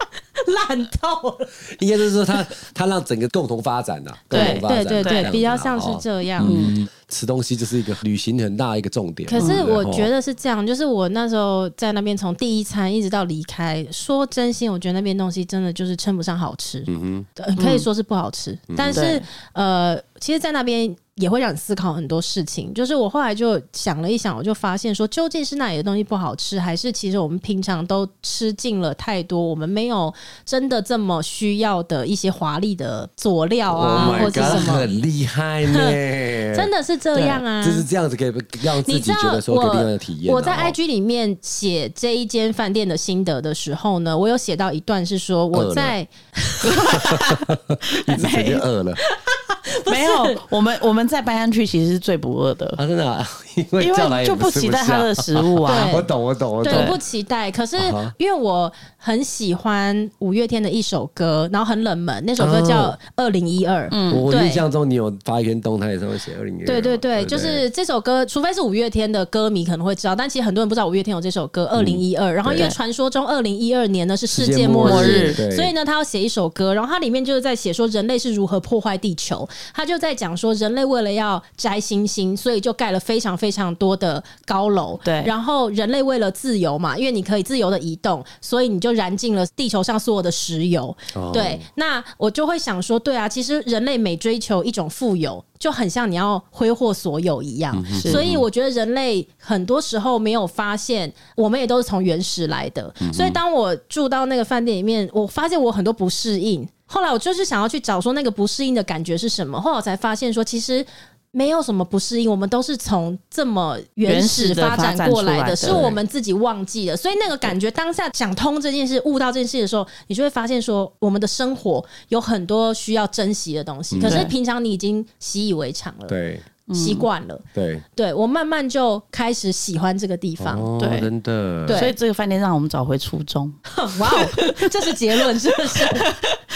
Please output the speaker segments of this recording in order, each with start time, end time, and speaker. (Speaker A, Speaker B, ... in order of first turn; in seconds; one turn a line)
Speaker A: 0.4-1.5
Speaker B: 1.7-10.1
Speaker C: 4.3-5.3
Speaker A: 4.3-6.7
Speaker C: 6.4-6.7
Speaker A: 9.3-34.9
Speaker C: 9.3-9.6
Speaker B: 16.9-17.3
Speaker C: 17.6-17.9
Speaker B: 18.7-19.1
Speaker C: 18.9-19.2
Speaker B: 33.7-36.7
Speaker C: 33.9-34.8
Speaker A: 35.7-36.0
Speaker A: 36.5-37.9
Speaker C: 37.1-37.4
Speaker B: 37.6-40.8
Speaker A: 38.8-47.2
Speaker B: 45.5-45.9
Speaker C: 46.6-48.6
Speaker B: 47.0-49.0
Speaker A: 49.0-50.4
Speaker C: 49.9-52.8
Speaker B: 52.8-57.0
Speaker C: 53.8-56.0
Speaker A: 55.6-56.1
Speaker A: 56.6-64.6
Speaker C: 56.7-57.0
Speaker B: 57.8-58.1
Speaker B: 62.4-63.0
Speaker C: 63.9-64.2
Speaker B: 64.1-67.6
Speaker A: 66.7-126.1
Speaker B: 71.8-72.7
Speaker B: 74.3-75.7
Speaker C: 74.8-75.4
Speaker C: 85.0-85.3
Speaker B: 91.1-91.6
Speaker B: 97.7-98.5
Speaker B: 103.0-103.4
Speaker C: 114.1-115.9
Speaker B: 115.6-116.0
Speaker B: 123.9-124.3
Speaker C: 124.0-124.3
Speaker B: 126.1-126.5
Speaker C: 126.7-127.1
Speaker A: 126.7-127.4
Speaker B: 127.5-127.8
Speaker A: 127.9-130.7
Speaker B: 130.4-131.9
Speaker C: 130.8-131.1
Speaker A: 131.7-131.9
Speaker C: 131.7-136.4
Speaker A: 133.7-136.1